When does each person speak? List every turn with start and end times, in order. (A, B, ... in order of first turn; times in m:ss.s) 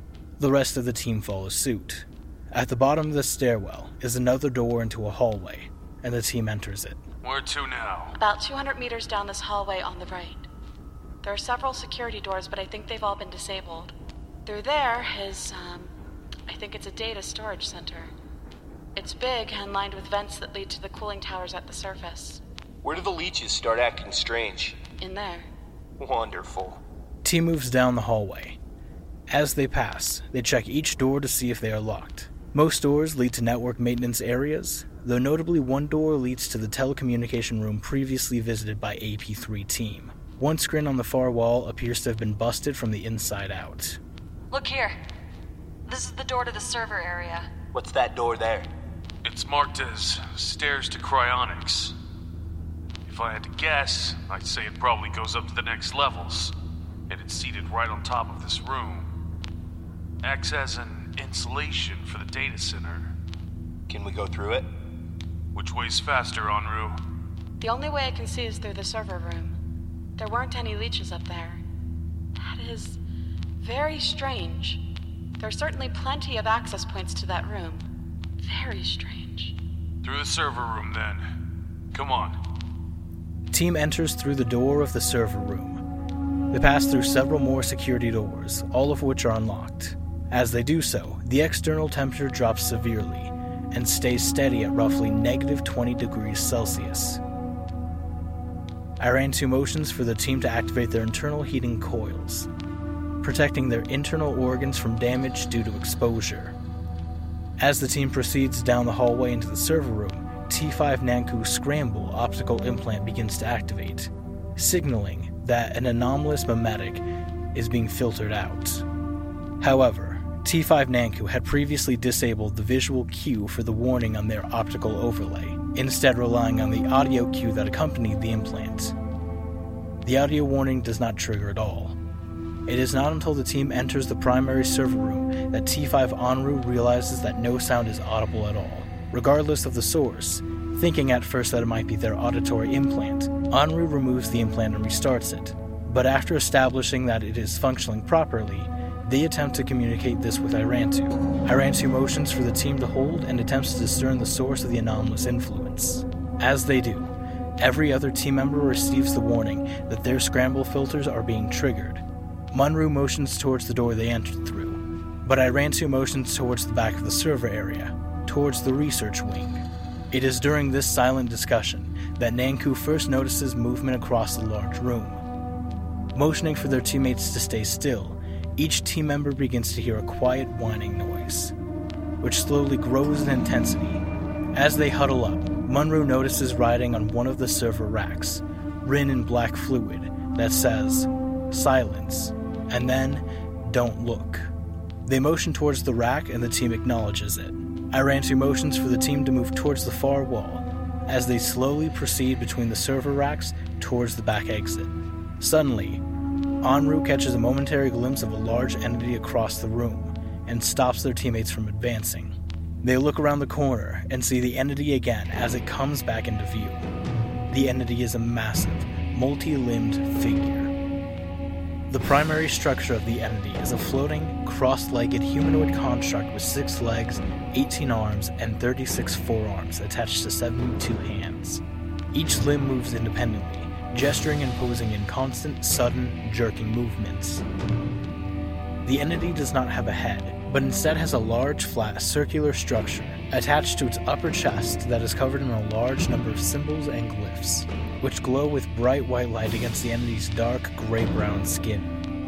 0:00.4-0:07.0 A
0:07.2-0:08.1 B
0:08.2-0:10.5 C
0:11.2-0:15.9 C
0:16.5-0:18.1 C
0:19.0-0:22.4 C
0:22.8-0:24.8 D
0:25.0-0:25.5 C
0:26.0-0:26.8 D
0:27.2-0:28.6 A
0:29.3-0:44.0 A
0:44.5-0:45.0 E
0:45.9-0:47.5 E
0:47.7-0:48.7 D
0:49.2-0:52.0 B
0:53.1-0:56.5 B
0:57.1-0:59.1 B
1:00.2-1:03.1 B
1:03.9-1:04.7 D
1:05.5-1:07.0 B
1:07.6-1:09.6 C
1:10.2-1:11.6 C
1:12.4-1:13.0 C
1:13.6-1:14.8 C
1:15.4-1:17.9 C
1:18.4-1:19.6 C
1:20.0-1:21.2 B
1:21.9-1:22.4 B
1:23.5-1:25.8 A
1:26.5-1:37.2 A
1:39.0-1:42.5 A
1:43.2-1:46.6 A
1:47.6-1:58.8 A
1:59.6-2:08.9 A
2:10.0-2:12.0 A
2:12.7-2:55.2 A
2:56.1-3:01.5 A
3:02.2-3:04.0 A
3:04.5-3:14.5 A
3:15.1-3:26.0 A
3:26.6-3:36.9 A
3:37.5-3:40.7 A
3:41.9-3:51.6 A
3:52.1-3:57.4 A
3:58.8-4:12.0 A